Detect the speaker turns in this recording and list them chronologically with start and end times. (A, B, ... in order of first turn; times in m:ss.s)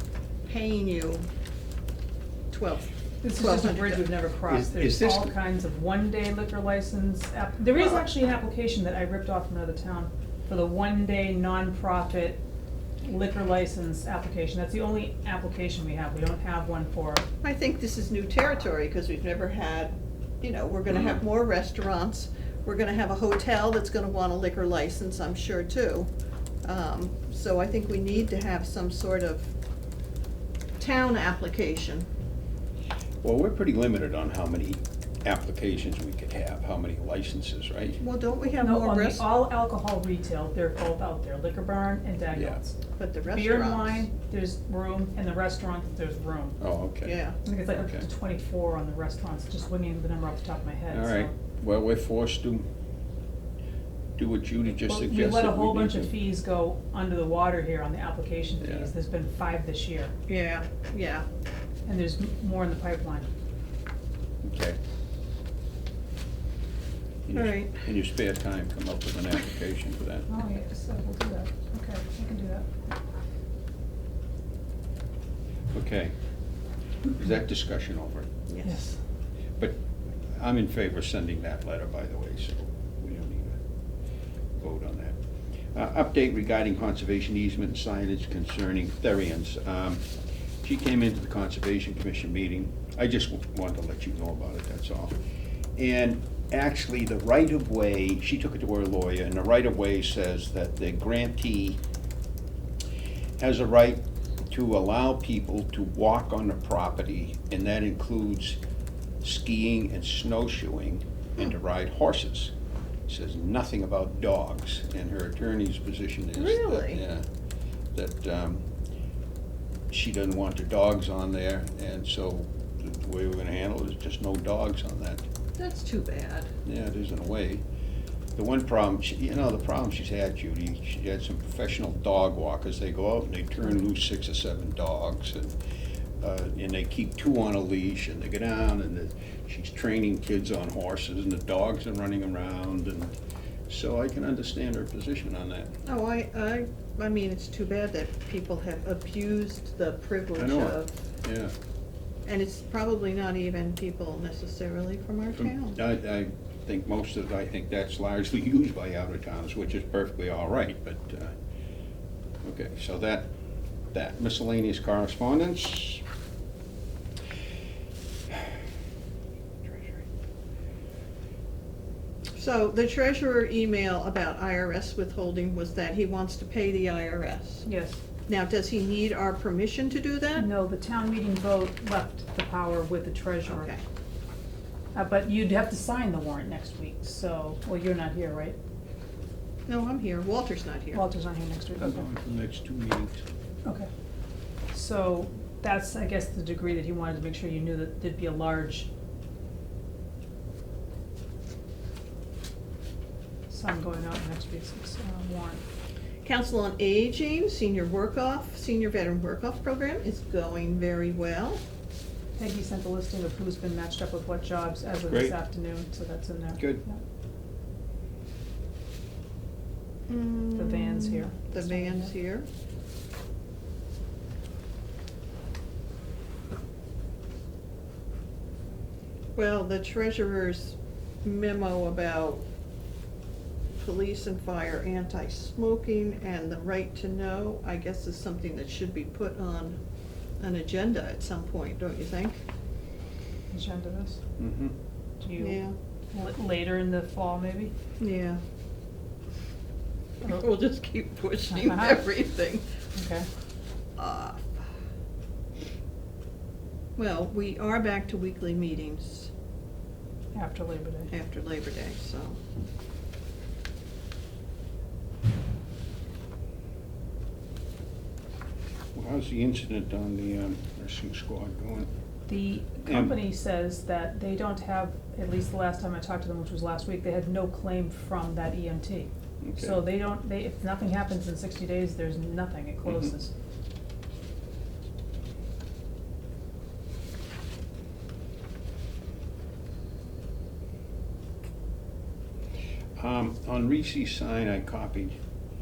0:00.5-0:01.3 A
0:02.5-0:04.1 A
0:03.2-0:12.4 B
0:04.5-0:05.3 C
0:13.0-0:17.2 B
0:17.4-0:26.1 A
0:26.6-0:29.5 A
0:30.8-0:32.1 A
0:33.2-0:38.0 C
0:38.0-0:39.2 A
0:38.6-0:42.8 B
0:43.0-0:44.1 A
0:43.3-0:46.6 B
0:46.6-0:47.1 C
0:47.0-0:47.4 A
0:47.4-0:51.3 B
0:47.7-0:48.1 C
0:50.9-0:52.7 C
0:54.2-0:56.1 C
0:54.7-1:00.1 B
0:58.6-0:58.9 C
1:00.3-1:01.3 A
1:01.9-1:03.3 B
1:04.4-1:04.8 C
1:07.3-1:10.3 C
1:07.3-1:07.8 A
1:10.3-1:12.7 B
1:15.7-1:16.2 C
1:17.2-1:18.3 C
1:18.5-1:18.8 A
1:18.6-1:19.0 B
1:20.4-1:23.6 C
1:24.6-1:25.2 C
1:25.7-1:30.1 C
1:30.6-1:35.2 C
1:35.8-1:41.8 C
1:43.4-1:48.6 C
1:49.2-1:52.5 C
1:53.1-1:57.2 C
1:56.4-1:57.0 A
1:57.9-1:58.7 C
1:59.9-2:05.2 C
2:05.6-2:06.5 A
2:06.6-2:07.6 C
2:08.4-2:15.6 C
2:16.2-2:23.1 C
2:23.7-2:25.7 C
2:25.9-2:31.0 A
2:30.4-2:31.5 C
2:32.3-2:35.8 A
2:35.4-2:41.3 C
2:42.4-2:43.3 C
2:43.9-2:46.0 C
2:49.7-2:50.0 C
2:52.4-2:57.7 A
2:57.7-2:58.0 B
2:58.3-3:00.5 A
3:00.4-3:03.7 B
3:03.5-3:03.8 A
3:05.0-3:08.6 B
3:09.7-3:11.0 A
3:10.9-3:12.1 B
3:11.8-3:13.2 C
3:13.6-3:13.9 B
3:14.7-3:18.9 B
3:23.5-3:25.6 B
3:26.2-3:31.6 A
3:32.4-3:37.0 B
3:35.1-3:35.3 C
3:40.1-3:42.5 A
3:40.6-3:42.1 B
3:49.4-3:52.4 A
3:53.8-3:59.8 A
4:00.4-4:02.4 A
4:03.5-4:04.2 B
4:04.4-4:04.8 C
4:05.2-4:05.6 B
4:05.4-4:05.8 A
4:06.1-4:07.7 B
4:08.0-4:08.4 A
4:10.2-4:12.6 A
4:11.5-4:12.1 B
4:13.0-4:13.3 B
4:14.0-4:14.7 A
4:17.0-4:19.3 A
4:20.3-4:21.1 B
4:21.1-4:22.4 A
4:28.9-4:31.9 C
4:32.3-4:43.3 B
4:32.8-4:33.2 C
4:39.4-4:39.8 C
4:53.0-4:55.2 C